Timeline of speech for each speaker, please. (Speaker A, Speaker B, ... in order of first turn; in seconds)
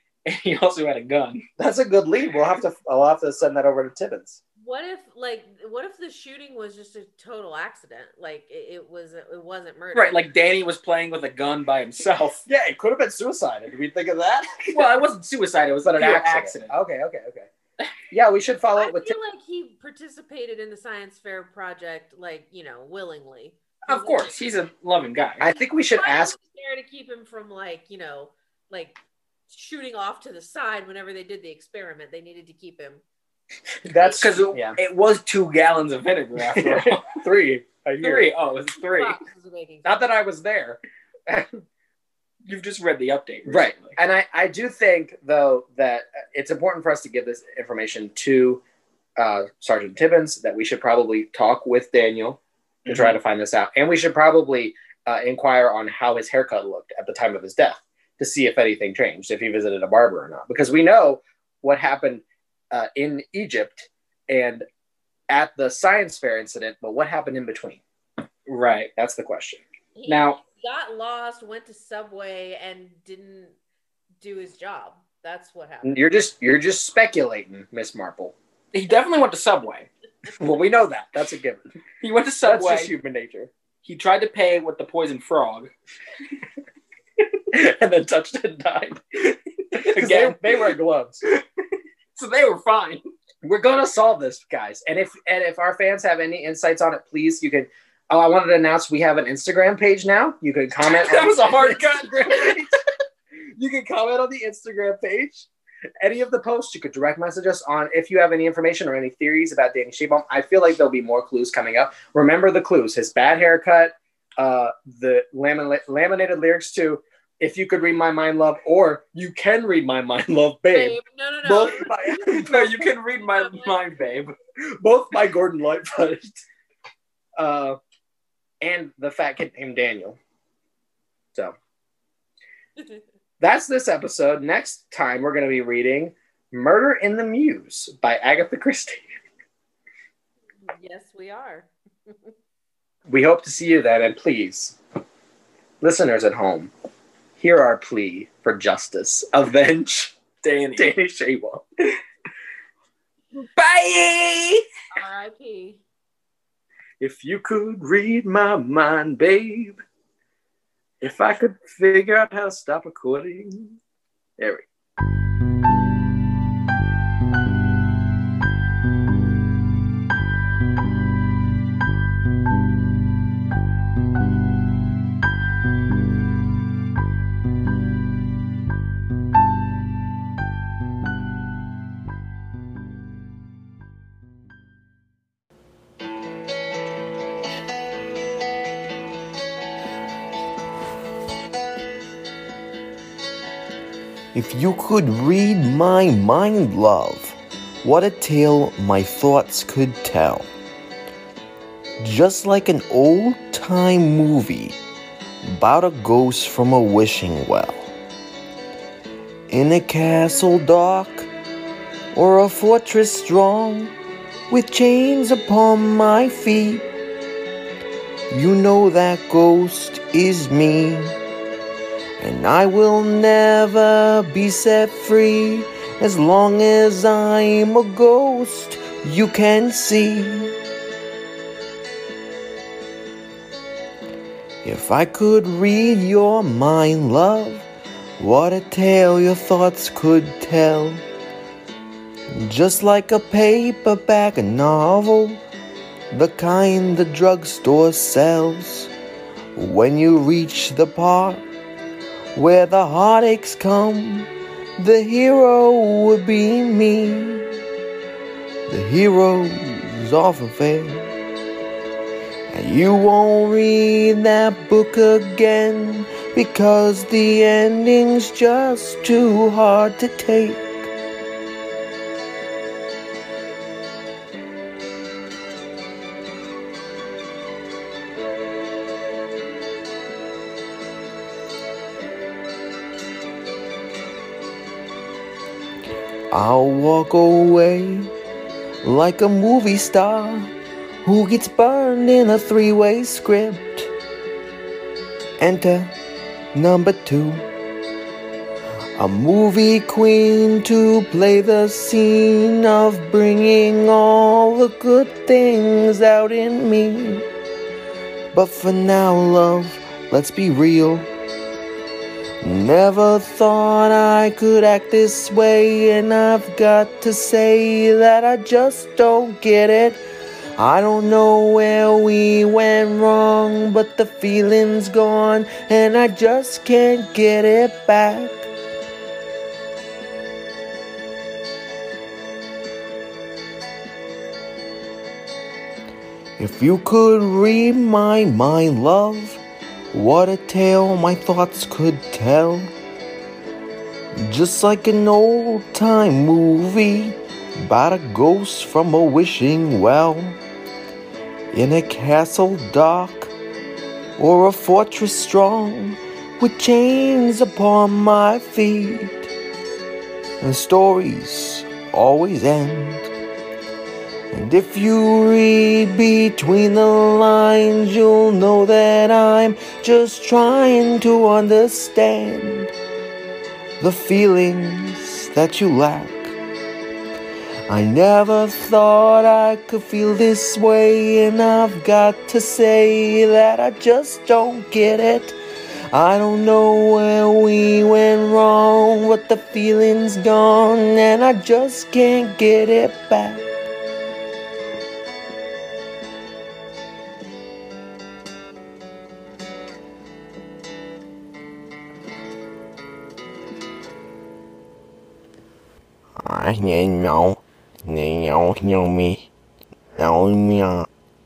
Speaker A: 0.2-1.4, 9.9-12.4, 14.7-16.7, 23.9-25.5, 34.0-37.0, 38.0-39.2, 42.5-44.0, 52.9-53.1, 68.5-68.9, 70.1-70.4, 78.7-79.9, 82.0-82.9, 83.8-85.7, 89.3-90.7, 92.1-93.0, 100.8-102.7, 122.2-124.3, 150.4-150.9, 153.6-154.6
Speaker B: 1.6-4.4, 12.5-14.9, 15.8-17.5, 18.1-19.1, 25.4-26.3, 33.8-34.8, 36.4-38.3, 39.8-41.6, 43.5-48.6, 49.2-64.6, 65.3-67.8, 69.0-69.6, 75.8-78.3, 80.4-81.8, 82.4-83.5, 87.5-89.2, 89.7-91.2, 93.4-102.7, 103.3-105.5, 106.0-122.8, 124.7-126.4, 127.4-127.8, 128.6-130.2, 133.4-139.1, 143.1-144.8, 145.8-146.7, 147.4-150.2, 150.8-151.6, 157.0-159.8, 161.0-163.8, 164.4-164.7
Speaker C: 4.6-10.2, 18.7-24.4, 25.9-28.9, 29.5-33.0, 38.8-40.0, 70.0-73.5, 74.2-76.0, 120.7-123.8, 132.8-133.0, 140.6-142.3, 154.9-155.8
Speaker D: 194.3-200.4, 202.0-204.7, 205.5-207.9, 209.5-211.3, 212.1-213.9, 214.5-216.8, 218.3-221.2, 222.2-230.6, 234.6-237.7, 238.2-241.0, 242.3-245.4, 246.1-248.9, 249.6-251.4, 252.3-257.5, 258.7-261.1, 262.5-270.9, 286.3-288.1, 288.8-290.5, 291.0-293.9, 295.4-295.9, 296.5-297.5, 299.0-307.2, 308.3-311.1, 312.4-320.0, 320.6-328.5, 336.4-339.4, 339.9-342.7, 344.2-350.4, 351.5-353.3, 354.2-359.3, 360.4-363.1, 364.3-372.7, 373.8-376.4, 377.7-385.4, 385.9-393.5, 406.2-409.3, 409.9-410.9